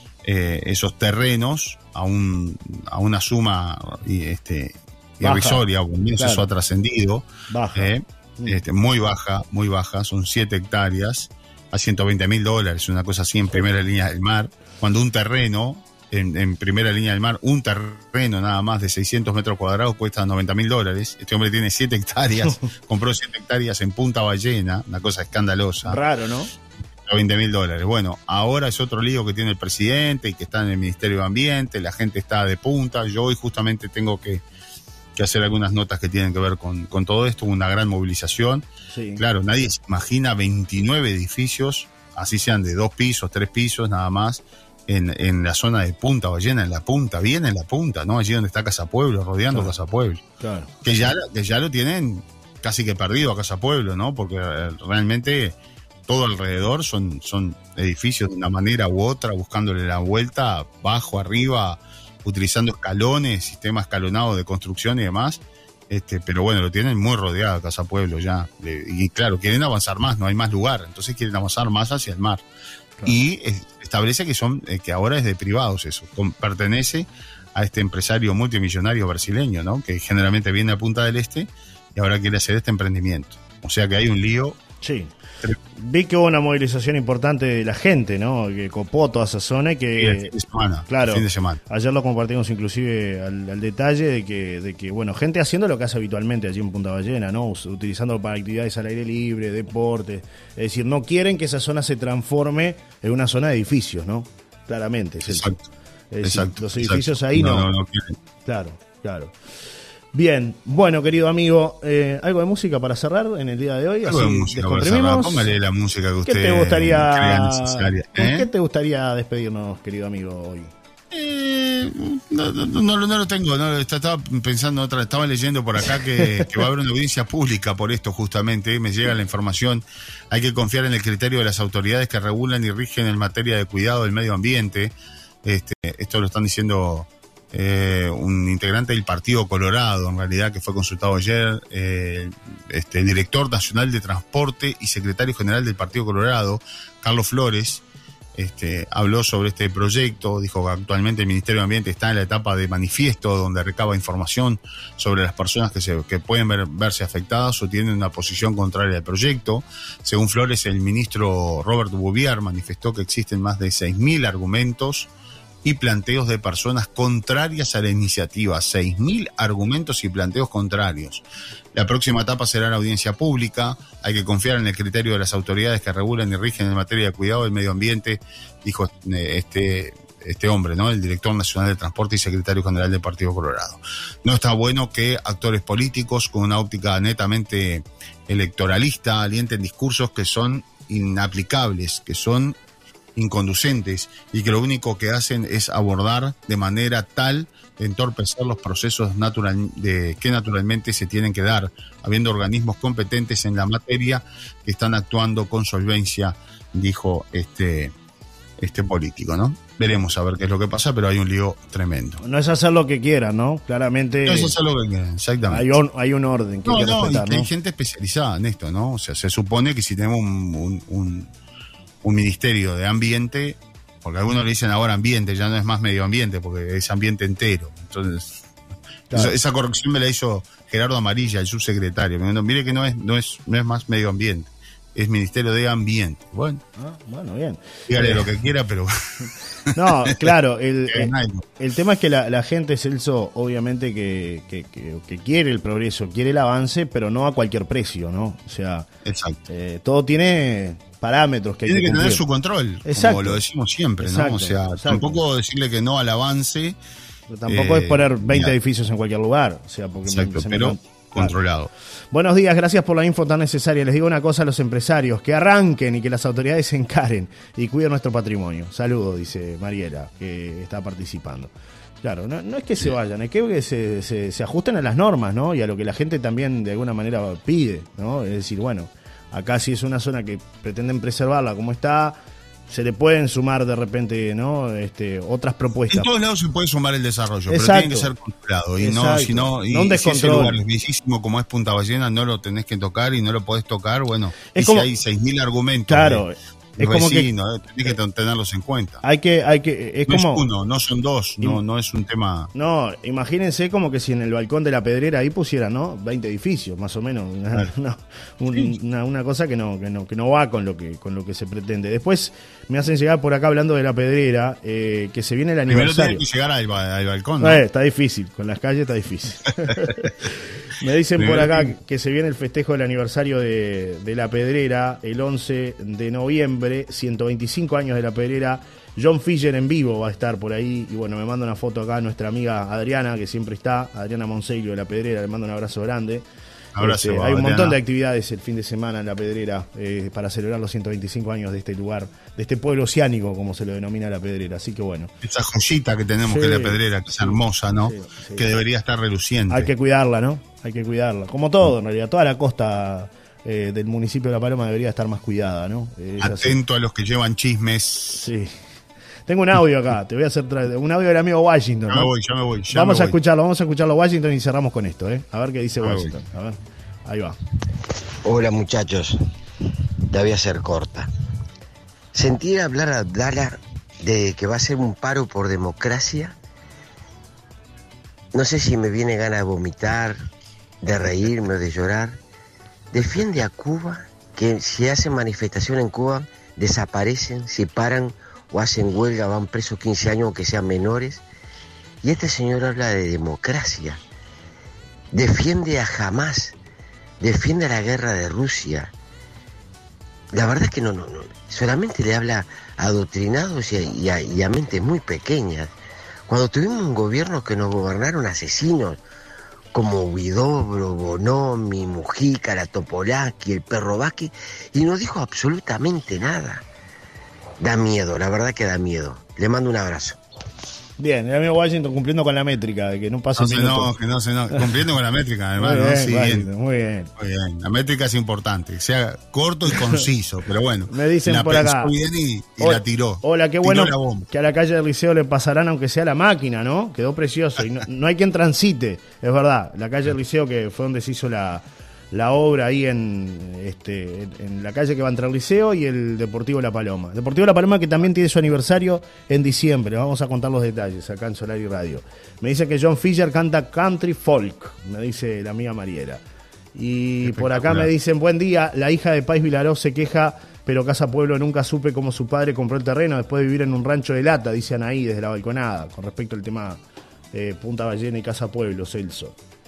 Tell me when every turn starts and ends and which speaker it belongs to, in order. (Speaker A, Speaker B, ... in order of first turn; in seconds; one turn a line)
Speaker A: 0.2-26.0
Speaker B: 5.2-5.6
Speaker B: 6.2-6.5
Speaker B: 7.5-8.6
Speaker B: 25.8-26.5
Speaker A: 27.0-34.4
Speaker A: 35.1-50.2
Speaker B: 38.9-39.2
Speaker B: 50.4-50.7
Speaker A: 50.8-55.5
Speaker A: 56.1-72.4
Speaker A: 73.0-84.6
Speaker B: 84.8-85.1
Speaker B: 85.8-90.3
Speaker A: 90.0-91.6
Speaker B: 90.9-105.5
Speaker A: 105.2-105.7
Speaker B: 106.1-107.7
Speaker A: 106.2-108.1
Speaker B: 108.4-109.3
Speaker B: 110.1-115.5
Speaker A: 114.0-118.5
Speaker B: 116.2-120.7
Speaker A: 121.1-147.8
Speaker A: 148.3-165.1
Speaker A: 165.6-192.6
Speaker A: 193.2-207.9
Speaker A: 208.6-212.2
Speaker B: 212.2-214.5
Speaker A: 214.2-215.7
Speaker B: 215.5-217.5
Speaker A: 216.6-221.3
Speaker A: 222.0-228.3
Speaker A: 229.1-236.6
Speaker B: 236.8-238.2
Speaker A: 237.9-239.7
Speaker B: 239.7-248.9
Speaker A: 240.9-241.4
Speaker A: 249.0-249.4
Speaker B: 249.5-252.2
Speaker A: 251.7-256.8
Speaker B: 252.8-253.4
Speaker B: 254.0-255.2
Speaker B: 257.3-261.4
Speaker A: 257.5-258.5
Speaker A: 260.1-261.7
Speaker B: 262.1-282.2
Speaker B: 282.7-286.1
Speaker A: 285.9-296.2
Speaker B: 287.5-288.1
Speaker B: 288.8-290.6
Speaker B: 294.5-294.9
Speaker B: 295.9-297.3
Speaker A: 296.8-299.0
Speaker B: 299.0-300.4
Speaker A: 300.1-302.5
Speaker B: 302.5-316.2
Speaker A: 315.7-317.6
Speaker B: 317.4-336.2
Speaker A: 319.6-320.1
Speaker A: 321.2-321.7
Speaker A: 336.7-337.8
Speaker B: 336.8-345.1
Speaker A: 345.2-349.7
Speaker B: 346.2-348.4
Speaker B: 349.5-356.6
Speaker A: 356.2-358.3
Speaker B: 358.1-358.5
Speaker B: 359.3-362.1
Speaker A: 361.9-363.2
Speaker B: 362.7-367.4
Speaker A: 365.8-366.1
Speaker C: 368.2-369.2
Speaker C: 370.1-371.1
Speaker C: 372.1-376.3
Speaker C: 378.3-380.2
Speaker C: 380.8-382.2
Speaker C: 382.9-391.2
Speaker C: 392.0-394.0
Speaker C: 395.1-396.5
Speaker C: 397.2-398.9
Speaker C: 400.3-405.7
Speaker C: 406.3-409.0
Speaker C: 409.7-416.6
Speaker C: 417.6-420.2
Speaker B: 421.0-423.9
Speaker A: 423.4-426.5
Speaker B: 425.6-427.1
Speaker A: 427.2-434.3
Speaker B: 430.9-431.9
Speaker B: 432.6-456.2
Speaker B: 456.7-466.8
Speaker A: 457.2-457.9
Speaker B: 467.3-469.4